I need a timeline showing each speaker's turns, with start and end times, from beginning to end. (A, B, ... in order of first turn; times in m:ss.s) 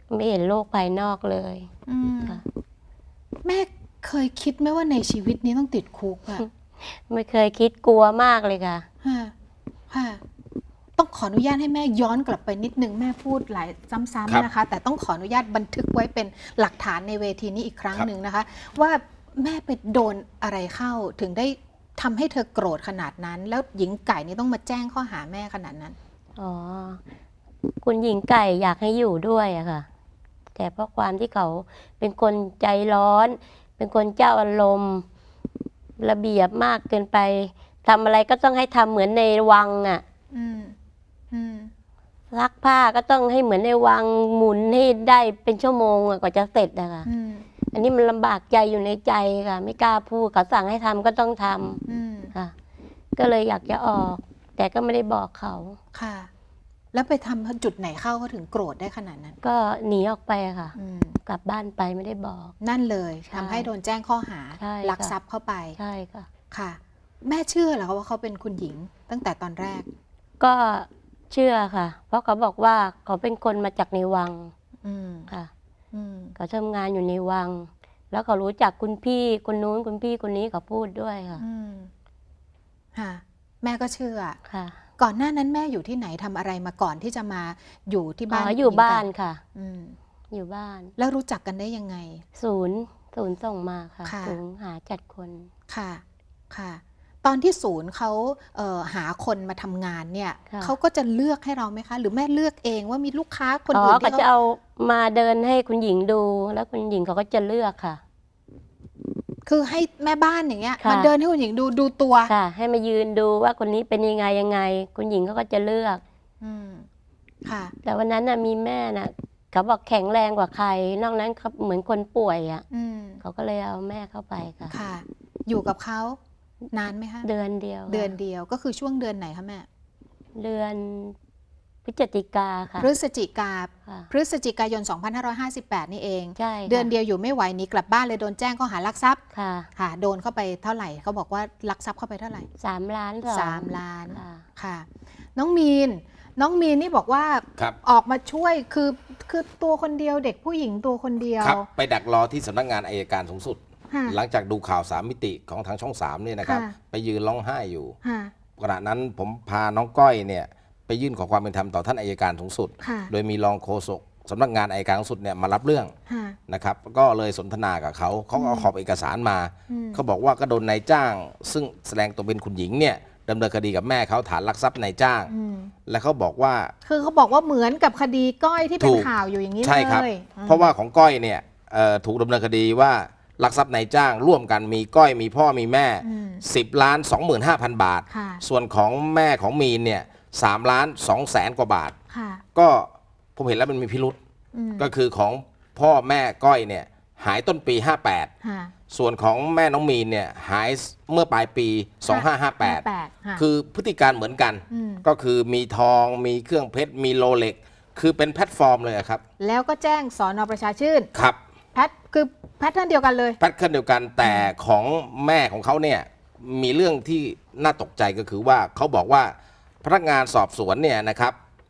0:00.1-0:01.7 A
0:01.9-0:02.4 B
0:03.4-0:06.4 B
0:06.4-0:08.8 A
0:09.0-0:09.3 B
0:09.9-0:10.2 B
0:11.0-0:26.0 B
0:26.4-0:27.0 A
0:27.8-0:29.8 A
0:30.5-0:35.0 A
0:36.0-0:40.0 A
0:40.3-0:40.7 B
0:41.3-0:41.7 B
0:42.3-0:47.1 A
0:47.0-0:47.4 B
0:47.7-0:52.5 A
0:51.9-0:52.3 B
0:53.2-0:55.8 A
0:55.9-0:56.3 B
0:56.9-0:59.3 B
0:59.4-1:02.5 A
1:00.8-1:01.2 B
1:02.6-1:05.8 B
1:03.3-1:03.7 A
1:04.6-1:05.1 A
1:05.8-1:06.3 A
1:06.5-1:09.9 B
1:10.4-1:14.5 A
1:14.8-1:15.3 B
1:15.9-1:16.3 B
1:16.4-1:21.4 A
1:21.4-1:21.9 B
1:22.9-1:24.4 B
1:24.5-1:24.8 A
1:25.0-1:30.0 B
1:28.3-1:29.4 A
1:30.3-1:30.9 A
1:31.0-1:32.2 B
1:32.4-1:35.5 A
1:34.0-1:34.4 B
1:35.7-1:44.2 B
1:43.7-1:48.0 A
1:49.4-1:52.3 B
1:50.8-1:51.1 A
1:52.3-1:56.0 A
1:56.4-1:56.9 B
1:57.4-1:57.7 B
1:57.8-2:02.6 A
2:02.7-2:03.2 B
2:03.2-2:04.7 A
2:04.7-2:06.2 B
2:06.7-2:07.3 B
2:07.2-2:08.1 A
2:07.9-2:09.7 B
2:10.4-2:11.1 A
2:11.8-2:12.9 A
2:12.8-2:19.2 B
2:16.4-2:16.9 A
2:19.3-2:19.7 A
2:19.8-2:22.5 B
2:22.6-2:24.4 A
2:23.3-2:31.7 B
2:31.4-2:38.0 C
2:33.9-2:34.2 B
2:36.4-2:36.7 B
2:38.0-2:38.3 B
2:38.6-2:45.9 C
2:42.8-2:43.1 B
2:46.1-2:46.4 B
2:46.5-2:55.3 C
2:48.3-2:48.7 B
2:49.7-2:50.0 B
2:55.3-2:55.7 B
2:55.9-2:56.7 C
2:56.8-3:00.7 B
2:58.8-2:59.1 C
2:59.6-3:11.9 C
3:06.0-3:06.4 B
3:08.1-3:08.4 B
3:12.1-3:12.4 B
3:12.5-3:14.2 C
3:14.5-3:14.9 B
3:14.8-3:18.3 C
3:18.4-3:18.7 B
3:18.9-3:22.8 C
3:22.1-3:23.4 B
3:23.4-3:29.2 C
3:24.7-3:25.0 B
3:29.4-3:31.1 B
3:31.1-3:31.4 C
3:31.7-3:33.4 B
3:33.4-3:41.4 C
3:34.2-3:34.5 B